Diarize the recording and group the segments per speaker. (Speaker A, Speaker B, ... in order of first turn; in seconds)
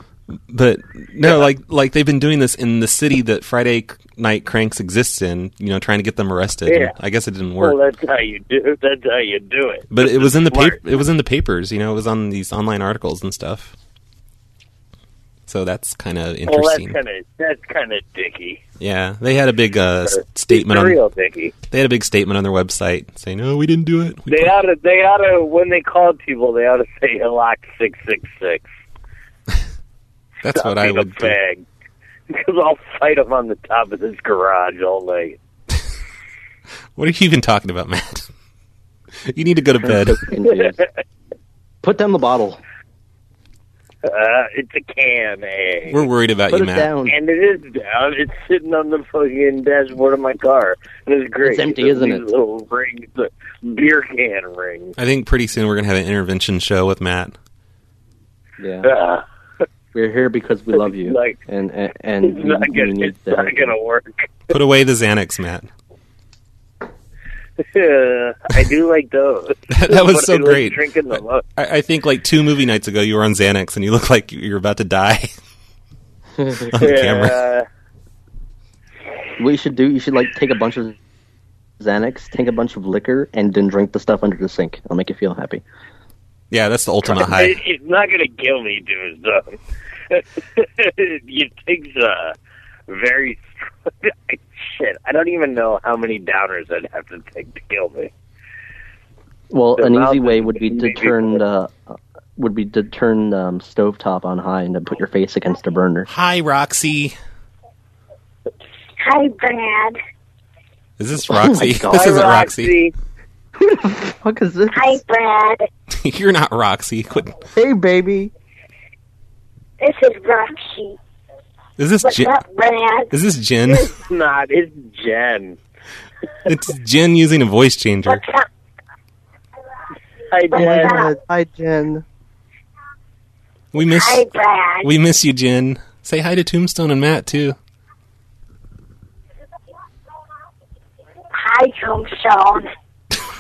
Speaker A: 0.5-7.8, 9.9-13.7, 15.5-17.0, 18.8-21.0, 21.7-24.5, 30.4-31.4, 37.0-38.3, 39.3-40.2, 45.9-46.9, 55.0-57.3, 64.5-65.7, 69.7-75.3, 76.7-77.4, 86.5-87.6, 106.1-107.2, 111.0-112.8, 115.9-117.4, 121.8-122.4, 123.1-123.9, 126.5-128.2, 133.7-134.3, 134.8-137.6
Speaker B: 6.7-6.9, 7.6-10.8, 16.5-18.6, 20.1-21.5, 24.3-28.7, 30.6-31.6, 32.3-35.4, 40.5-40.9, 44.0-46.0, 47.1-54.9, 58.8-59.2, 60.8-61.4, 62.2-64.3, 67.6-71.4, 76.8-77.7, 87.1-89.6, 90.1-92.3, 92.9-98.1, 99.8-101.4, 111.9-112.9, 123.7-125.6, 130.3-131.1
Speaker C: 39.8-40.8, 41.8-42.6, 46.5-47.2, 51.4-52.2, 58.6-58.9, 59.9-63.8, 76.4-76.7, 79.4-81.0, 81.8-85.6, 99.5-106.1, 111.3-112.2, 113.6-115.0, 117.6-118.3, 130.5-132.1
Speaker D: 109.0-110.0, 114.7-115.7, 119.8-121.0, 122.0-123.1, 128.1-128.5, 130.5-131.1, 133.8-134.9, 141.3-142.7